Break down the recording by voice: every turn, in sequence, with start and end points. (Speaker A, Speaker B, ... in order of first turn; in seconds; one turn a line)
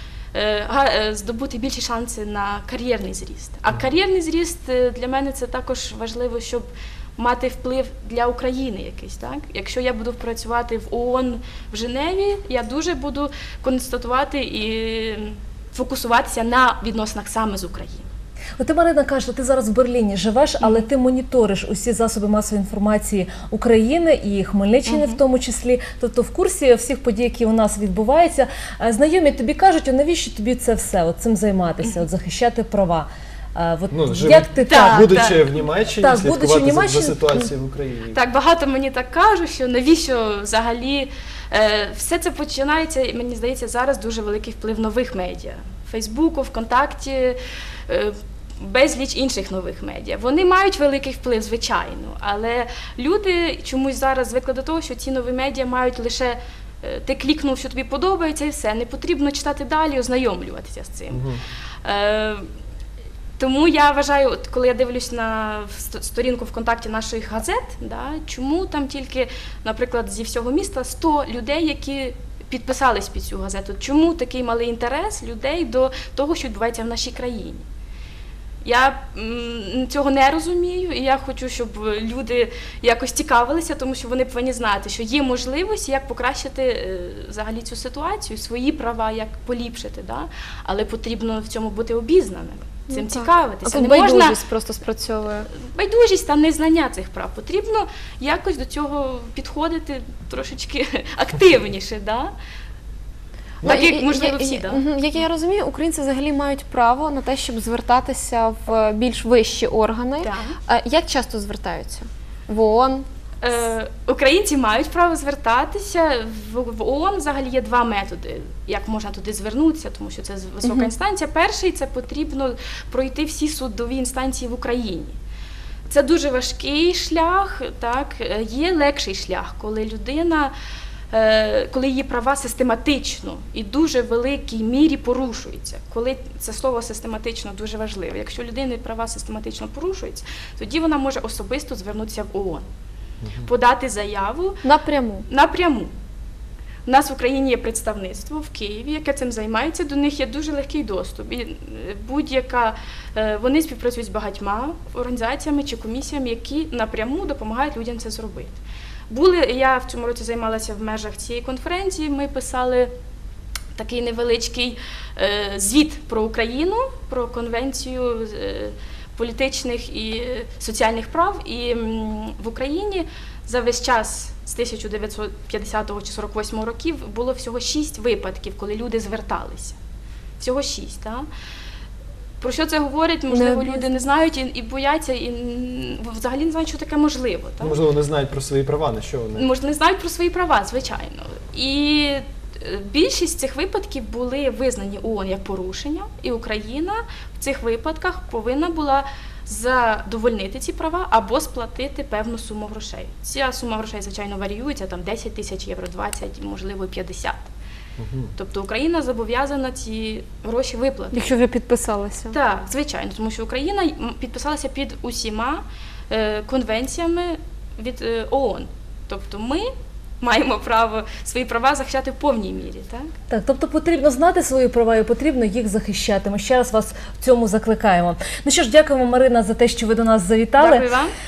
Speaker A: 0.3-18.1
Speaker B: 18.6-35.0
Speaker A: 20.6-20.9
Speaker A: 24.9-25.2
Speaker C: 33.9-38.2
Speaker A: 34.6-35.4
Speaker B: 36.0-37.3
Speaker A: 38.1-47.4
Speaker A: 47.9-61.2
Speaker C: 61.1-61.4
Speaker A: 61.8-62.5
Speaker A: 63.4-77.6
Speaker A: 78.6-94.4
Speaker D: 92.9-95.5
Speaker A: 95.5-102.3
Speaker A: 103.6-104.8
Speaker D: 103.7-113.0
Speaker A: 110.2-110.6
Speaker A: 113.4-125.2
Speaker D: 120.6-120.9
Speaker A: 125.9-130.5
Speaker A: 131.1-142.7
Speaker C: 143.2-143.5
Speaker A: 143.4-144.6
Speaker D: 144.6-145.2
Speaker A: 145.3-145.9
Speaker A: 146.8-158.6
Speaker A: 159.1-162.9
Speaker A: 163.7-179.8
Speaker A: 180.4-181.2
Speaker A: 182.4-187.8
Speaker D: 183.3-183.8
Speaker C: 187.6-189.5
Speaker A: 189.3-207.5
Speaker C: 208.0-208.3
Speaker A: 208.3-211.2
Speaker D: 211.1-212.4
Speaker A: 212.3-223.1
Speaker B: 223.3-230.8
Speaker A: 230.6-231.1